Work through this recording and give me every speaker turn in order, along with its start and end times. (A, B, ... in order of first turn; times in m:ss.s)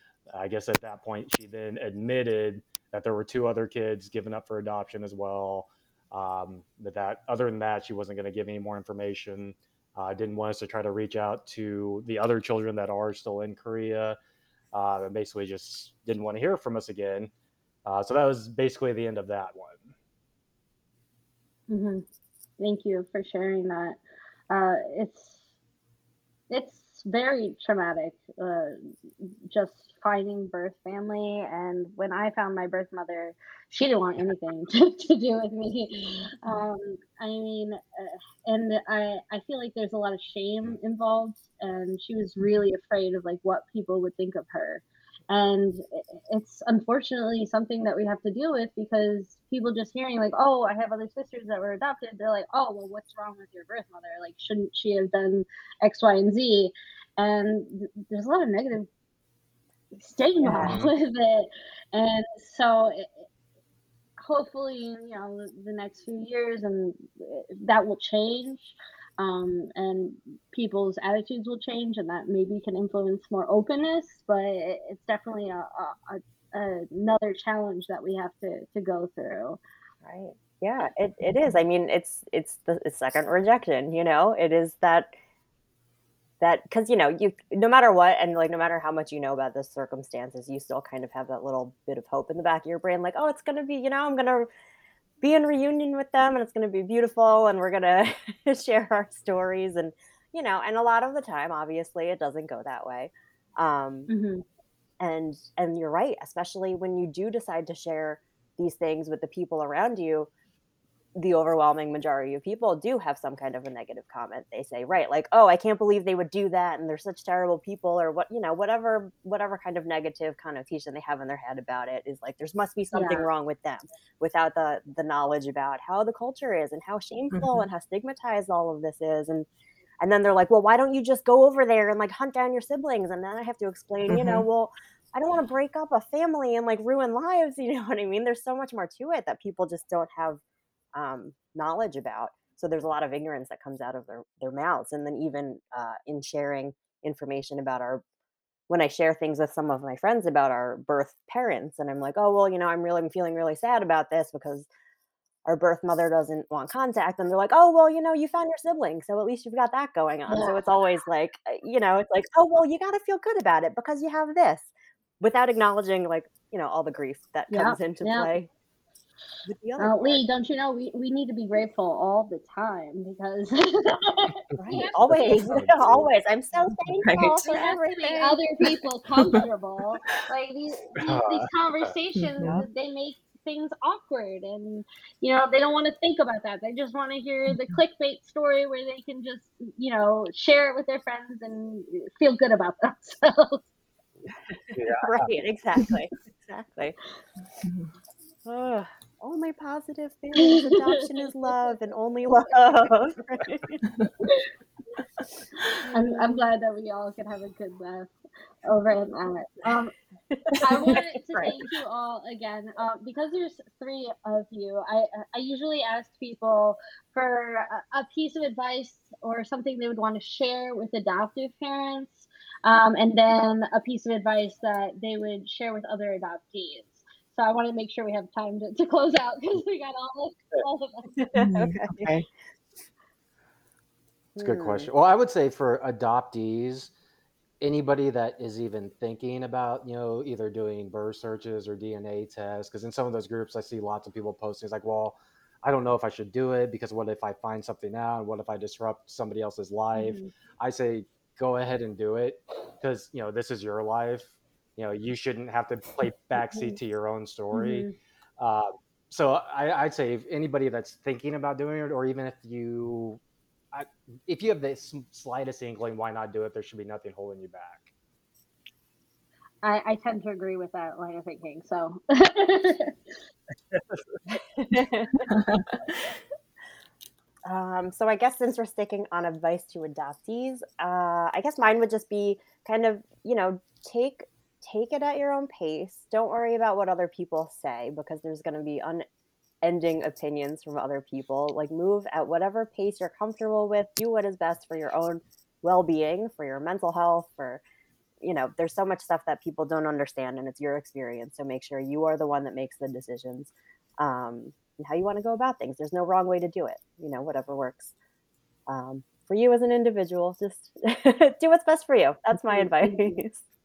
0:00.3-0:14.2 A
0:14.7-0:17.3 A
0:17.8-0:19.9 A
0:21.7-0:22.0 B
0:22.6-0:24.0 B
0:24.5-0:25.4 B
0:26.5-0:58.9 B
1:00.0-1:03.2 B
1:00.4-1:00.8 C
1:00.6-1:00.9 A
1:04.2-1:19.6 B
1:20.0-1:25.1 C
1:26.4-1:34.5 C
1:35.2-1:44.1 C
1:44.1-1:44.4 B
1:45.0-1:50.3 C
1:51.2-2:09.5 C
2:02.9-2:03.2 B
2:07.3-2:07.6 D
2:10.0-2:20.4 C
2:14.1-2:14.4 D
2:20.9-2:28.0 C
2:28.7-2:34.7 C
2:35.4-2:44.7 C
2:40.3-2:40.6 B
2:45.2-2:48.5 C
2:47.5-2:48.3 B
2:49.4-2:50.2 C
2:49.8-2:55.7 B
2:54.6-2:58.4 C
2:55.1-2:56.1 A
2:56.9-2:57.4 D
2:57.4-3:13.6 B
3:01.0-3:01.9 A
3:02.2-3:02.6 D
3:14.7-3:15.3 A
3:14.9-3:17.0 C
3:17.6-3:17.9 D
3:18.4-3:23.8 C
3:20.4-3:20.9 B
3:24.2-3:24.5 B
3:25.8-3:28.1 B
3:25.9-3:26.4 C
3:28.6-3:29.9 B
3:30.3-3:31.6 C
3:30.6-3:51.4 B
3:51.3-3:52.2 D
3:51.4-3:52.1 C
3:54.3-3:54.9 C
3:54.4-3:56.9 A
3:57.6-4:17.9 A
4:09.9-4:10.3 B
4:17.5-4:18.0 B
4:18.4-4:23.2 A
4:23.7-4:27.9 A
4:29.6-4:33.1 B
4:33.7-4:34.0 A
4:34.3-4:35.3 C
4:35.3-4:36.1 D
4:37.4-4:49.0 C
4:49.6-4:57.6 C
4:58.2-5:07.9 C
5:08.7-5:13.4 C
5:12.5-5:13.2 B